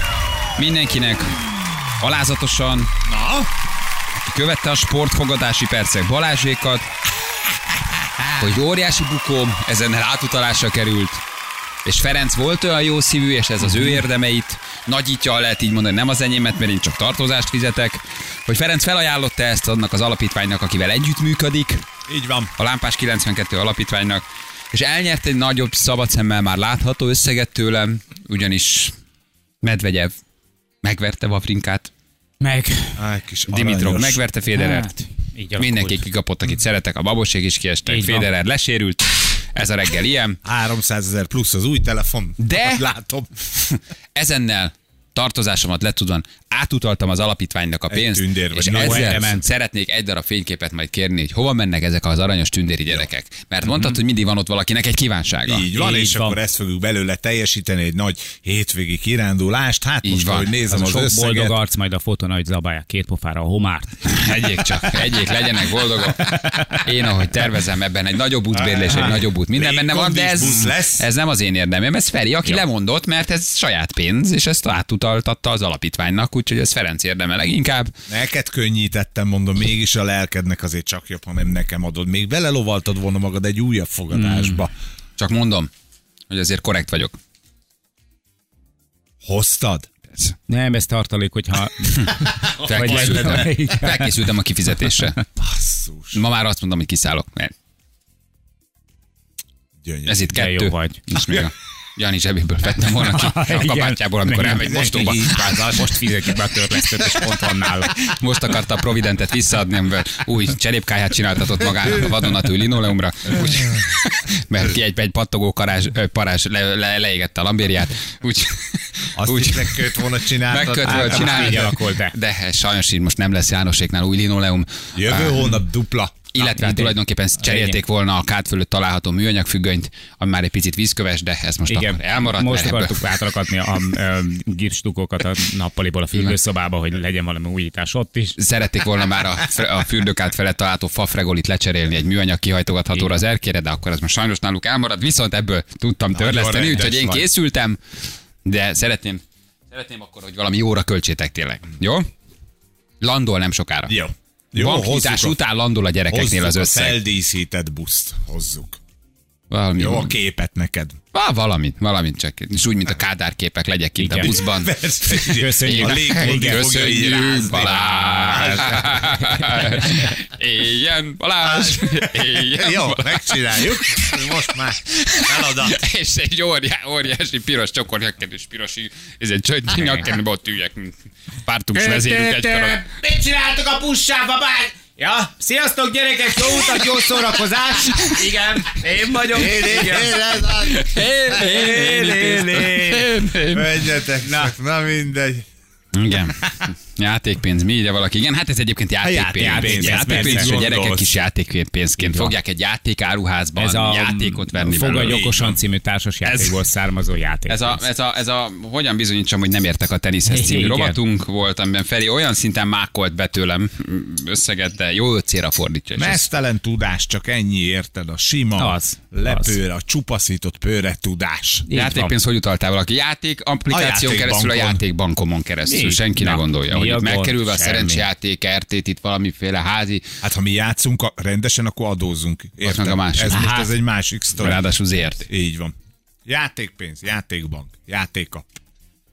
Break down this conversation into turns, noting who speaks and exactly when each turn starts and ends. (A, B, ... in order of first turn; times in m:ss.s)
0:00.6-0:01.4 A
0:02.0-0:02.9 A
0:03.0-0:03.5 B
0:04.2-0:06.8 A
0:08.3-0:11.2 A
0:11.8-0:21.8 A
0:22.1-0:22.5 B
0:22.6-0:28.9 A
0:29.6-0:30.1 A
0:30.8-0:31.9 A
0:32.4-0:33.0 C
0:33.0-0:34.2 B
0:33.5-0:35.0 A
0:34.5-0:36.0 C
0:35.5-0:40.4 A
0:37.8-0:38.3 C
0:40.4-0:43.3 B
0:42.4-0:42.8 A
0:43.5-0:55.7 A
0:47.9-0:49.3 B
0:48.7-0:49.4 C
0:53.7-0:53.9 C
0:55.4-1:01.6 B
0:55.7-0:56.4 C
1:00.0-1:00.5 A
1:00.7-1:03.9 C
1:04.0-1:17.9 A
1:06.2-1:06.8 C
1:08.5-1:11.0 B
1:18.1-1:24.7 B
1:24.1-1:24.6 C
1:25.2-1:25.7 A
1:26.3-1:27.1 A
1:29.2-1:29.9 B
1:30.5-1:34.2 C
1:32.4-1:33.5 B
1:32.6-1:35.2 A
1:35.4-1:36.2 B
1:36.1-1:37.5 A
1:39.8-1:40.2 B
1:40.0-1:45.9 A
1:40.3-1:41.0 C
1:43.0-1:48.0 C
1:44.5-1:45.9 B
1:47.9-2:05.5 A
1:59.2-2:01.7 B
2:00.8-2:02.1 C
2:04.9-2:06.2 B
2:06.3-2:13.0 A
2:06.4-2:07.8 C
2:11.7-2:18.4 C
2:18.4-2:27.8 A
2:26.1-2:27.3 B
2:28.4-2:32.1 A
2:33.0-2:33.9 A
2:33.9-2:35.4 B
2:34.5-2:37.0 A
2:36.1-2:38.8 B
2:39.5-2:40.1 A
2:39.8-2:41.0 B
2:41.1-2:54.4 A
2:44.0-2:44.4 C
2:44.2-2:49.3 B
2:45.2-2:47.0 C
2:47.5-2:49.8 C
2:51.4-2:55.8 B
2:54.9-3:00.9 A
2:59.7-3:00.1 C
3:01.4-3:02.8 A
3:01.7-3:10.5 C
3:06.7-3:07.5 B
3:09.3-3:11.7 B
3:10.5-3:13.8 A
3:11.4-3:13.0 C
3:13.5-3:15.4 B
3:14.2-3:14.5 C
3:15.9-3:25.2 A
3:19.0-3:21.1 B
3:19.4-3:20.5 C
3:22.0-3:22.3 C
3:23.6-3:27.8 C
3:25.0-3:25.6 B
3:26.2-3:26.6 A
3:27.5-3:36.2 A
3:30.2-3:31.0 C
3:36.0-3:41.7 B
3:38.6-3:39.6 C
3:41.7-3:42.1 C
3:41.7-3:50.0 A
3:43.7-3:44.8 B
3:45.6-3:48.1 C
3:50.2-3:54.6 B
3:52.6-3:53.4 A
3:53.3-3:53.7 C
3:54.4-3:55.3 A
3:55.3-3:55.7 B
3:56.2-3:58.5 B